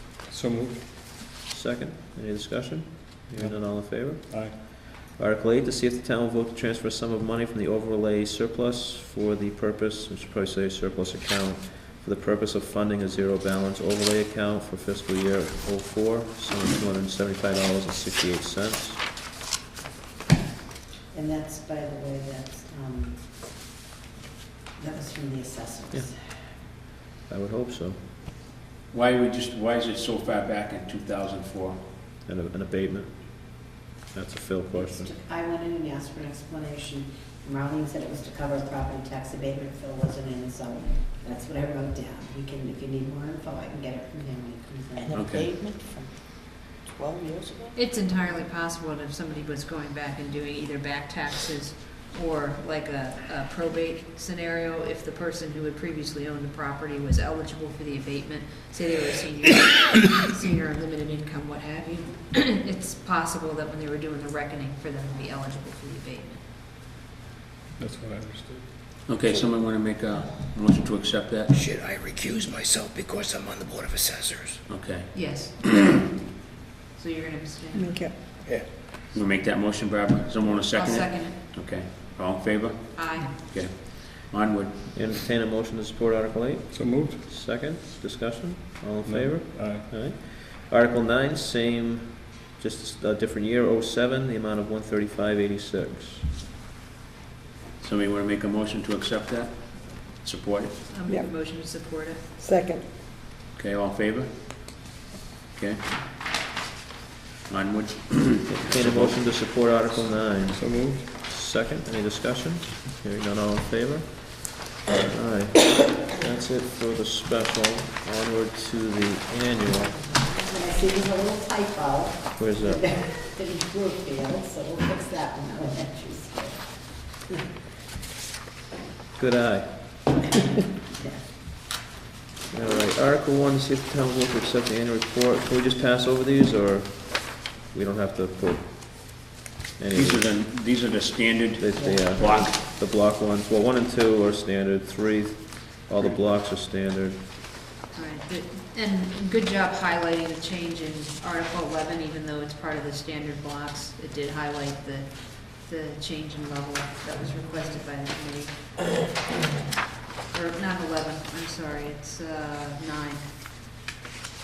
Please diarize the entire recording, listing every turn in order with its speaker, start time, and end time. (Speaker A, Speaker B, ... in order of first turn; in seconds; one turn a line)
Speaker A: 0.3-0.8
Speaker B: 1.5-19.0
Speaker A: 3.4-4.5
Speaker C: 21.1-23.2
Speaker C: 24.8-26.1
Speaker B: 25.9-26.3
Speaker B: 27.3-28.0
Speaker D: 28.9-31.8
Speaker B: 32.2-35.1
Speaker C: 34.7-45.3
Speaker E: 45.0-47.8
Speaker D: 45.1-45.5
Speaker F: 47.8-66.4
Speaker A: 67.8-68.8
Speaker D: 69.1-71.5
Speaker G: 71.5-74.6
Speaker D: 74.7-75.5
Speaker F: 75.1-76.0
Speaker F: 77.0-78.0
Speaker G: 78.4-78.7
Speaker D: 79.1-85.1
Speaker F: 80.7-81.4
Speaker F: 83.0-83.3
Speaker B: 84.9-96.3
Speaker A: 86.7-87.2
Speaker A: 89.0-89.9
Speaker D: 97.8-100.8
Speaker F: 100.9-102.3
Speaker D: 103.5-104.7
Speaker D: 105.5-105.8
Speaker D: 107.5-109.2
Speaker B: 108.5-120.0
Speaker A: 110.5-111.1
Speaker C: 120.1-127.3
Speaker B: 122.4-123.0
Speaker B: 129.2-130.3
Speaker B: 132.5-140.4
Speaker D: 139.9-142.6
Speaker B: 141.6-147.2
Speaker C: 141.8-142.1
Speaker F: 147.9-158.9
Speaker F: 160.3-163.3